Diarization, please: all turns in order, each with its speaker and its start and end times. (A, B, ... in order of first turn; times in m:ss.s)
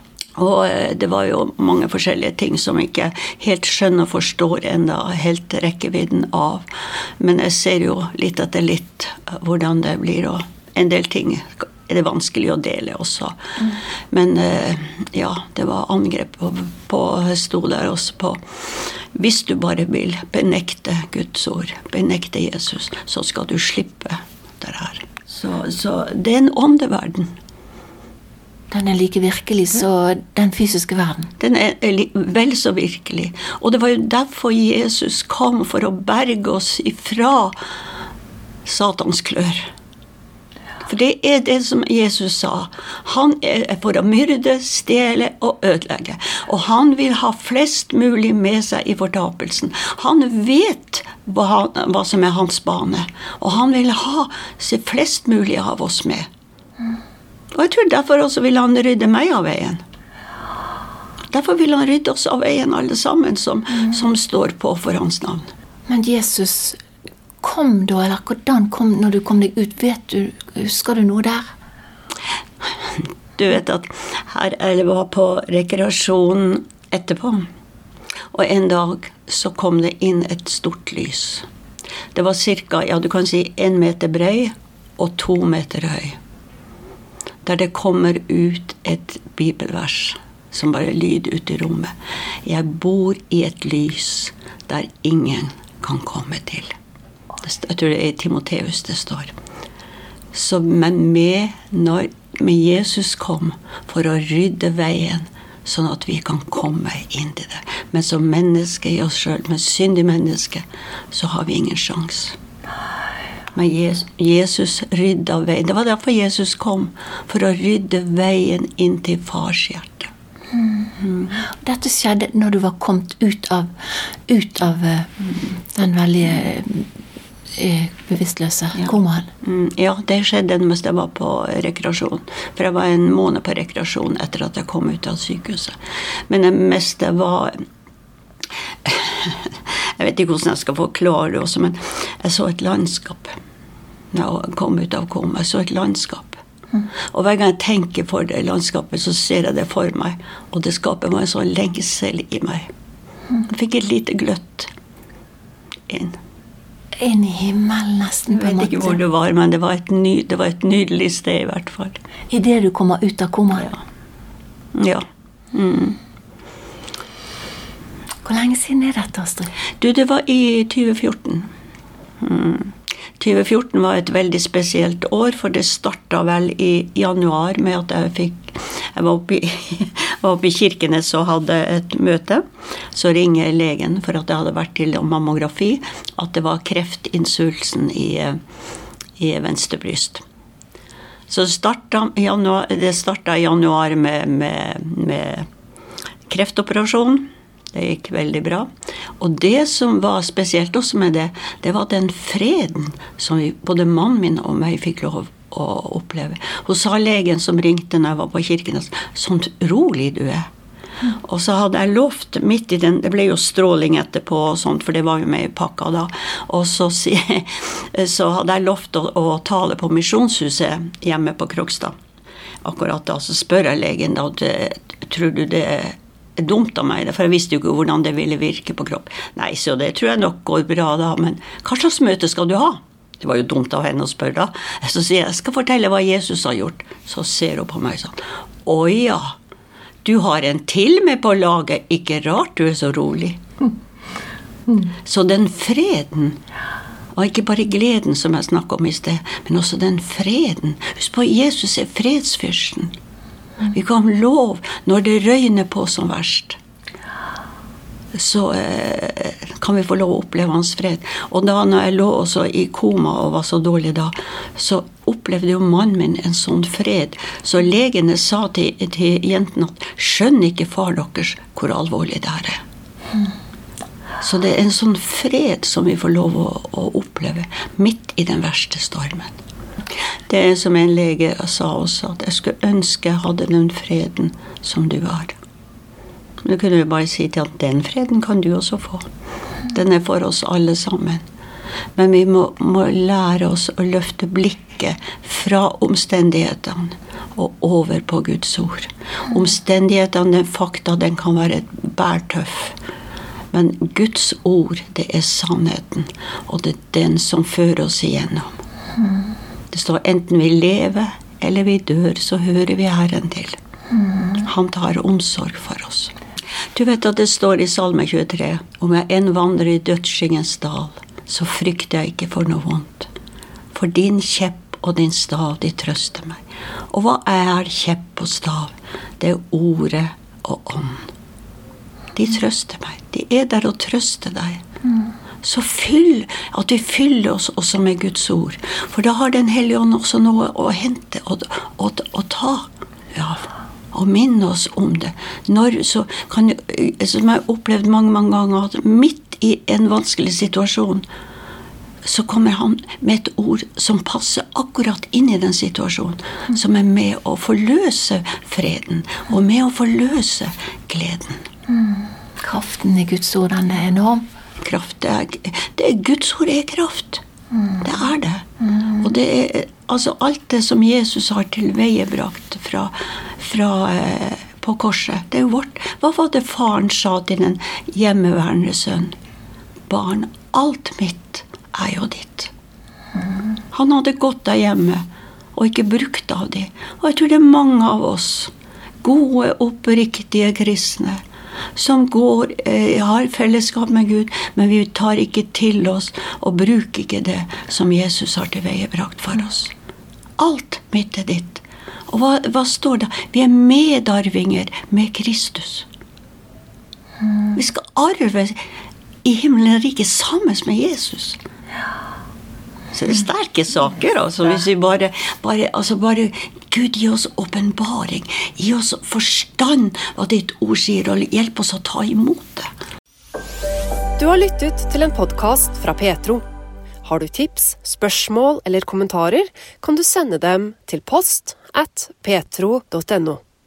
0:00.4-0:06.6 A
0:07.2-0:13.3 A
0:14.1-0:18.4 A
0:19.1-0:27.3 A
0:28.7-0:31.3 B
0:31.4-0:37.5 A
0:38.6-0:39.7 A
0:40.8-0:56.3 A
0:57.5-0:59.8 A
1:01.3-1:05.5 A
1:05.9-1:06.8 B
1:07.4-1:11.5 B
1:13.4-1:17.4 A
1:18.3-1:21.4 A
1:22.1-1:26.2 A
1:27.4-1:31.9 A
1:32.4-1:36.7 A
1:37.4-1:39.3 A
1:40.3-1:52.4 A
1:53.5-2:00.1 A
2:00.5-2:03.7 B
2:04.3-2:06.9 B
2:07.5-2:09.3 B
2:08.7-2:15.7 A
2:16.3-2:17.5 A
2:18.8-2:23.3 A
2:24.1-2:26.4 A
2:27.1-2:32.7 A
2:33.4-2:34.7 A
2:35.9-2:36.2 A
2:37.0-2:39.0 B
2:38.3-2:42.0 A
2:42.3-2:43.8 B
2:44.8-2:46.0 A
2:48.2-2:49.5 B
2:49.8-2:51.5 A
2:52.2-3:08.4 A
3:09.2-3:10.2 A
3:11.3-3:15.4 A
3:16.3-3:18.7 A
3:19.2-3:30.4 A
3:31.1-3:41.9 A
3:42.6-3:59.3 A
4:00.0-4:03.4 A
4:05.0-4:06.4 A
4:07.1-4:12.9 A
4:13.6-4:16.6 A
4:18.1-4:32.6 A
4:34.2-4:39.3 A
4:40.3-4:45.3 A
4:46.4-4:49.0 A
4:49.7-4:51.2 A
4:52.0-5:02.8 A
5:03.5-5:08.5 A
5:09.0-5:09.3 B
5:09.7-5:13.6 A
5:13.9-5:14.4 B
5:14.4-5:16.1 A
5:16.7-5:23.1 A
5:23.7-5:26.4 A
5:26.9-5:31.1 A
5:32.1-5:34.6 A
5:35.4-5:51.0 A
5:52.0-6:01.4 A
6:01.7-6:04.2 B
6:04.6-6:07.2 A
6:07.8-6:08.4 A
6:09.0-6:19.1 A
6:19.9-6:22.5 A
6:23.7-6:25.0 A
6:25.5-6:28.5 A
6:29.0-6:31.2 A
6:31.8-6:39.7 A
6:40.4-6:45.9 A
6:47.5-6:48.6 A
6:49.2-6:51.4 A
6:52.9-7:02.7 A
7:04.2-7:06.4 C
7:07.0-7:13.4 C